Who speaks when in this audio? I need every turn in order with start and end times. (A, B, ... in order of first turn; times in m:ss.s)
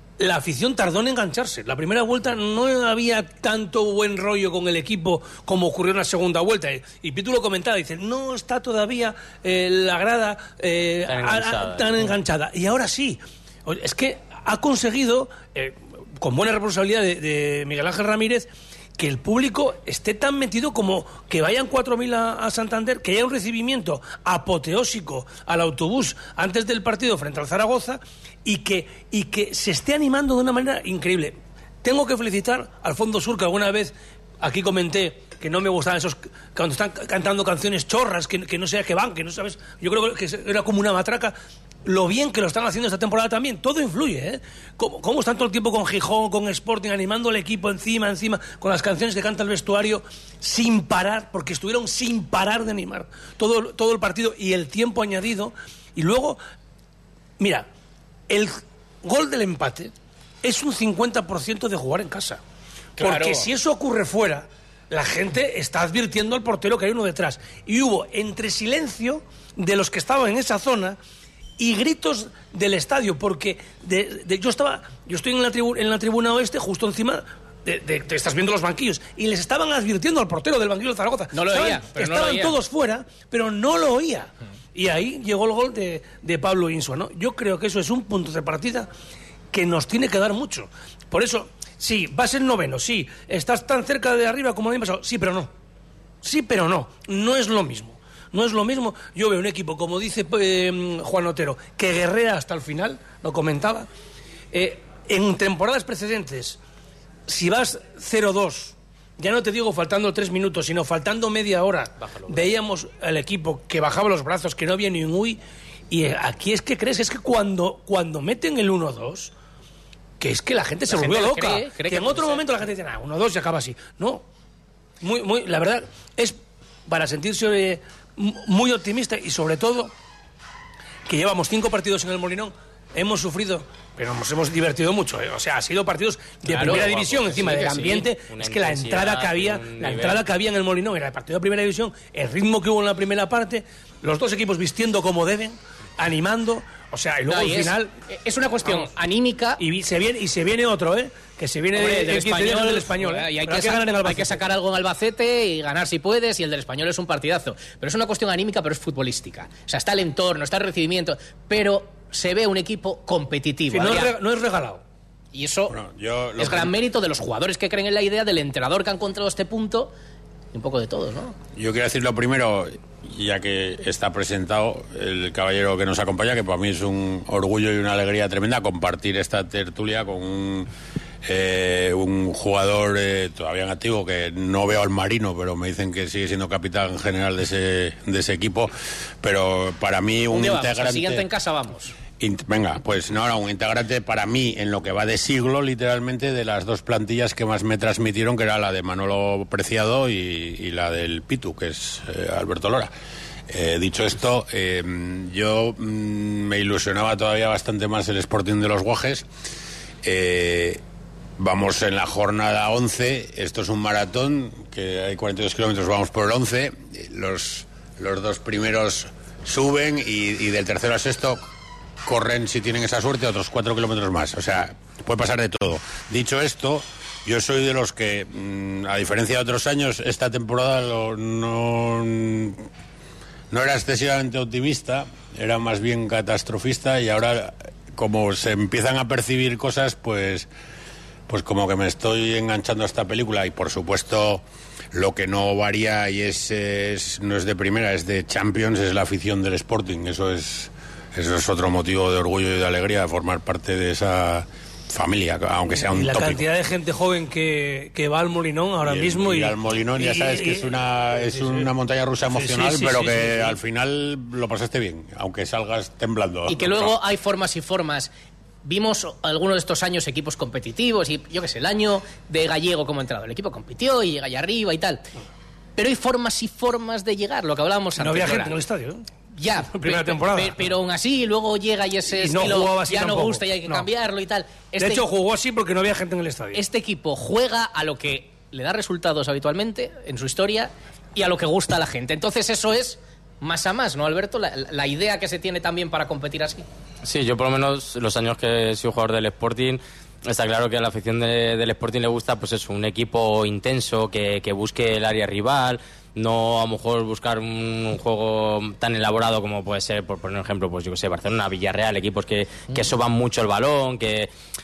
0:00.2-0:56.4 A
0:11.1-0:12.2 B
0:57.4-0:57.7 A
0:58.3-0:59.9 A
1:00.4-1:02.4 A
1:03.0-1:11.0 A
1:03.0-1:03.5 C
1:11.6-1:28.9 A
1:21.3-1:22.6 C
1:29.5-1:35.5 A
1:36.2-1:43.9 A
1:44.5-1:46.6 A
1:47.3-1:55.4 A
1:52.0-1:52.5 B
1:55.9-1:59.3 A
2:00.2-2:04.2 A
2:00.9-2:02.5 C
2:05.0-2:09.9 A
2:11.1-2:27.9 A
2:16.5-2:16.9 C
2:16.6-2:20.2 B
2:17.4-2:17.8 C
2:27.3-2:29.6 C
2:29.6-2:34.5 A
2:31.7-2:44.1 C
2:43.7-2:44.8 A
2:45.3-2:45.8 C
2:45.7-2:46.7 D
2:46.4-2:49.9 C
2:50.5-2:51.4 C
2:51.6-3:00.7 D
3:01.2-3:11.2 D
3:10.3-3:12.0 C
3:12.2-3:22.9 D
3:23.5-3:29.3 D
3:30.0-3:30.8 D
3:31.4-3:41.4 D
3:42.0-3:52.6 D
3:53.5-4:00.5 D
4:01.3-4:16.5 D
4:15.8-4:20.7 A
4:18.8-4:27.0 D
4:21.3-4:21.7 A
4:22.3-4:23.6 A
4:26.5-4:28.1 C
4:28.6-4:35.1 C
4:35.8-4:38.6 C
4:38.0-4:39.0 A
4:39.4-4:45.1 C
4:39.6-4:40.6 A
4:42.1-4:43.9 A
4:44.8-4:46.6 A
4:46.5-4:56.7 C
4:57.0-5:14.3 B